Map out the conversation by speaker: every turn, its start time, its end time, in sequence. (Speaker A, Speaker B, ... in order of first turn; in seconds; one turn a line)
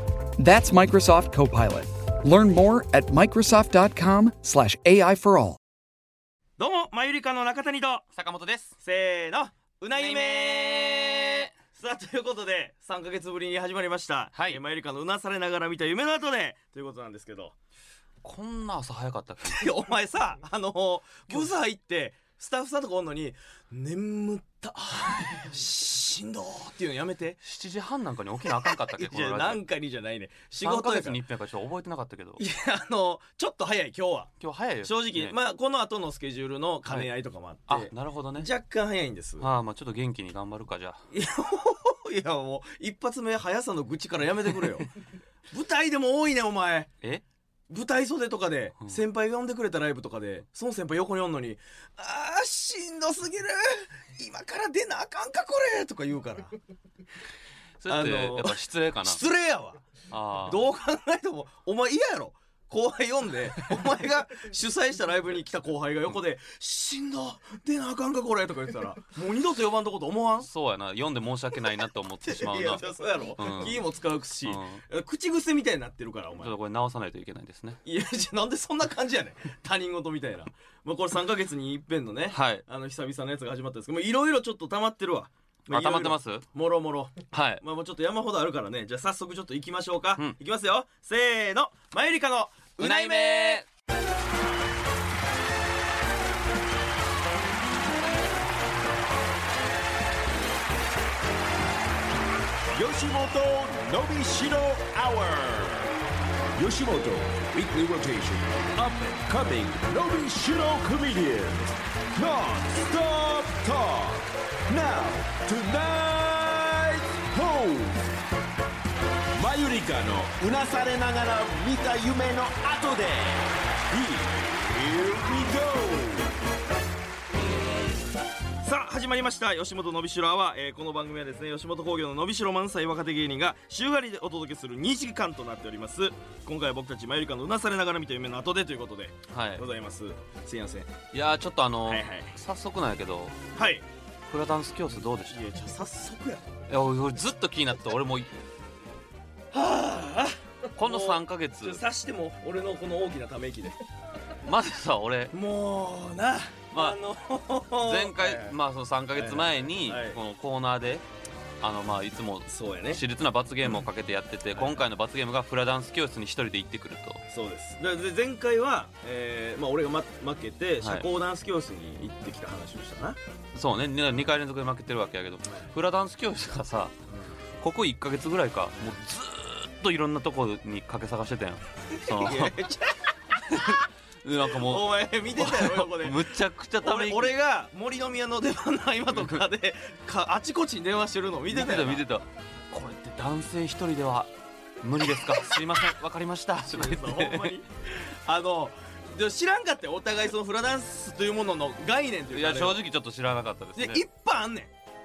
Speaker A: 0.4-5.6
Speaker B: 6.6-8.0
Speaker C: 8.1-8.8
Speaker B: 8.8-17.6
Speaker C: 10.0-11.5
Speaker C: 14.3-14.6
Speaker C: 18.2-19.7
Speaker B: 19.4-27.4
Speaker C: 27.4-29.6
Speaker B: 28.4-31.2
Speaker C: 30.6-32.4
Speaker B: 32.4-39.5
Speaker C: 34.4-35.4
Speaker C: 36.9-37.1
Speaker C: 37.7-38.5
Speaker C: 39.4-41.0
Speaker B: 41.1-44.9
Speaker B: 45.5-46.9
Speaker B: 47.7-56.6
Speaker C: 57.8-59.2
Speaker B: 57.9-59.9
Speaker C: 60.1-60.6
Speaker B: 60.5-70.5
Speaker C: 70.4-72.9
Speaker B: 72.2-76.5
Speaker C: 73.4-73.8
Speaker C: 74.4-74.8
Speaker C: 76.4-77.8
Speaker B: 77.8-93.6
Speaker C: 82.3-82.6
Speaker C: 85.7-86.5
Speaker C: 87.3-87.6
Speaker C: 92.8-93.7
Speaker D: 102.7-106.0
Speaker D: 106.6-118.1
Speaker D: 119.4-126.3
Speaker B: 128.6-140.9
Speaker C: 139.3-139.7
Speaker C: 141.1-143.3
Speaker B: 141.9-142.4
Speaker B: 143.6-143.8
Speaker C: 144.3-145.4
Speaker B: 145.3-146.6
Speaker C: 146.7-148.3
Speaker B: 149.5-153.8
Speaker C: 150.8-151.8
Speaker C: 154.4-155.3
Speaker B: 155.3-158.6
Speaker C: 156.7-157.0
Speaker C: 157.8-161.1
Speaker B: 159.2-160.2
Speaker C: 161.6-167.2
Speaker B: 162.5-163.0
Speaker B: 164.6-164.8
Speaker B: 167.3-173.2
Speaker C: 173.5-176.9
Speaker B: 175.4-175.7
Speaker B: 177.1-177.4
Speaker C: 177.6-182.6
Speaker B: 182.0-183.1
Speaker C: 183.5-187.3
Speaker B: 184.4-186.3
Speaker B: 186.8-192.1
Speaker C: 189.1-189.4
Speaker C: 191.5-194.3
Speaker C: 194.8-197.6
Speaker B: 195.2-195.6
Speaker B: 196.6-202.8
Speaker C: 202.3-204.1
Speaker B: 203.8-204.7